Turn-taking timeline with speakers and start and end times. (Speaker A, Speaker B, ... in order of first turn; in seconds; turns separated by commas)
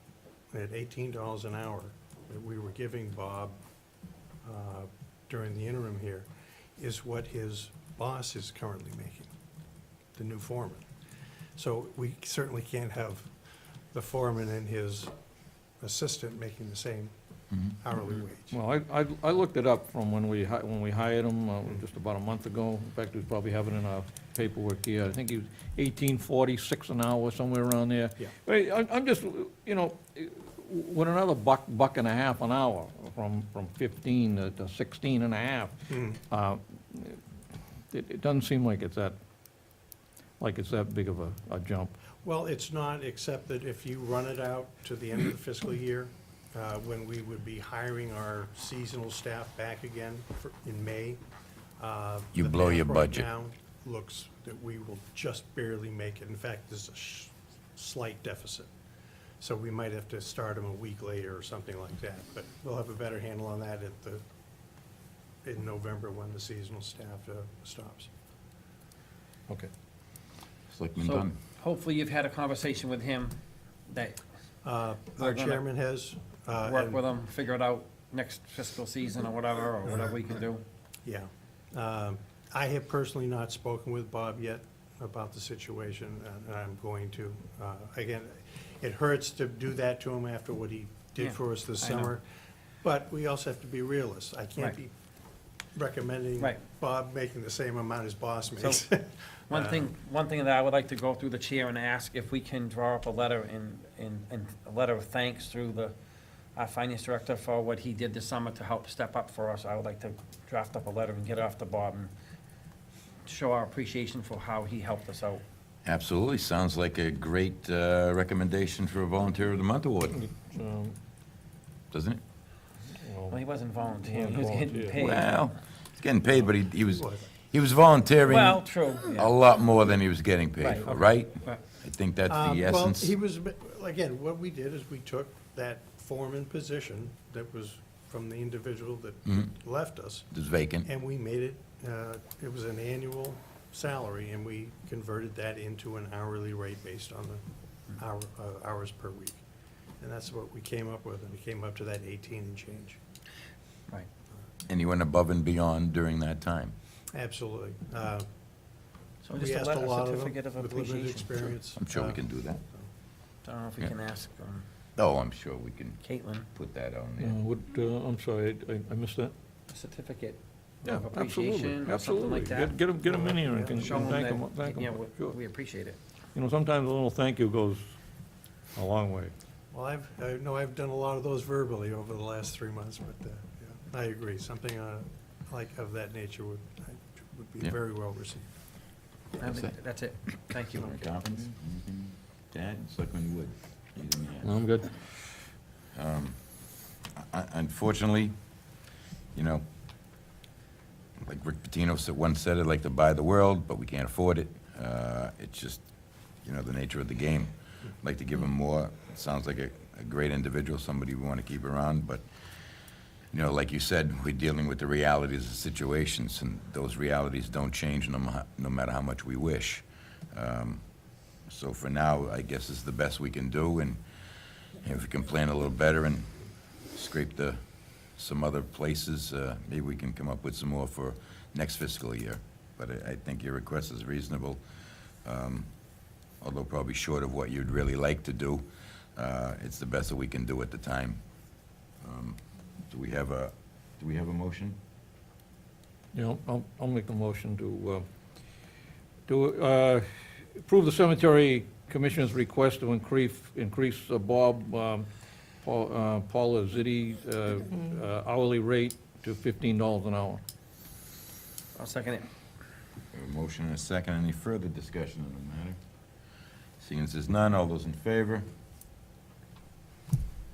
Speaker A: 0.5-3.6, Speaker A: 4.4-9.3, Speaker A: 10.2-10.9, Speaker A: 11.6-13.3, Speaker A: 13.9-15.1, Speaker A: 15.8-17.1, Speaker A: 17.8-18.6, Speaker B: 18.5-37.2, Speaker A: 35.9-36.2, Speaker B: 37.9-39.1, Speaker B: 40.4-42.0, Speaker A: 42.2-51.2, Speaker A: 51.8-58.7, Speaker C: 52.3-53.3, Speaker A: 59.4-64.2, Speaker A: 65.4-68.1, Speaker C: 70.7-71.3, Speaker D: 71.0-73.4, Speaker D: 73.9-74.2, Speaker A: 74.6-77.0, Speaker D: 75.1-75.6, Speaker D: 76.6-80.6, Speaker A: 81.0-92.2, Speaker D: 91.2-92.2, Speaker A: 92.8-94.9, Speaker A: 95.7-99.9, Speaker D: 99.5-105.9, Speaker D: 106.5-112.1, Speaker D: 113.2-115.4, Speaker C: 115.8-120.2, Speaker B: 120.1-121.0, Speaker C: 121.9-122.2, Speaker B: 123.0-123.4, Speaker D: 123.3-125.5, Speaker B: 124.0-125.1, Speaker C: 125.0-133.1, Speaker A: 126.3-127.3, Speaker D: 128.3-129.3, Speaker D: 130.6-131.6, Speaker A: 132.2-140.3, Speaker C: 139.2-139.5, Speaker C: 140.3-140.9, Speaker A: 140.8-149.4, Speaker A: 150.0-153.0, Speaker C: 154.7-156.7, Speaker A: 157.1-158.3, Speaker D: 159.2-161.5, Speaker A: 159.3-162.9, Speaker C: 161.8-162.6, Speaker D: 163.4-164.6, Speaker C: 164.9-166.0, Speaker D: 166.0-166.5, Speaker C: 166.5-167.3, Speaker B: 167.2-169.3, Speaker D: 169.7-172.8, Speaker B: 170.8-175.4, Speaker A: 173.1-173.9, Speaker D: 173.8-176.0, Speaker B: 176.3-177.9, Speaker B: 178.7-179.3, Speaker A: 179.7-188.5, Speaker D: 189.4-191.1, Speaker C: 189.4-189.7, Speaker C: 190.7-194.6, Speaker B: 194.4-194.9, Speaker C: 195.9-196.6, Speaker C: 197.1-198.4, Speaker C: 199.3-199.6, Speaker C: 201.2-205.8, Speaker C: 206.4-212.2, Speaker C: 213.3-220.8, Speaker C: 221.4-224.0, Speaker C: 224.8-226.3, Speaker C: 226.9-234.6, Speaker C: 235.2-235.7, Speaker C: 236.3-241.2, Speaker C: 242.0-244.8, Speaker B: 246.1-248.1, Speaker B: 249.3-255.1, Speaker B: 255.6-260.4, Speaker D: 261.7-262.3, Speaker C: 263.1-265.8, Speaker C: 266.8-268.5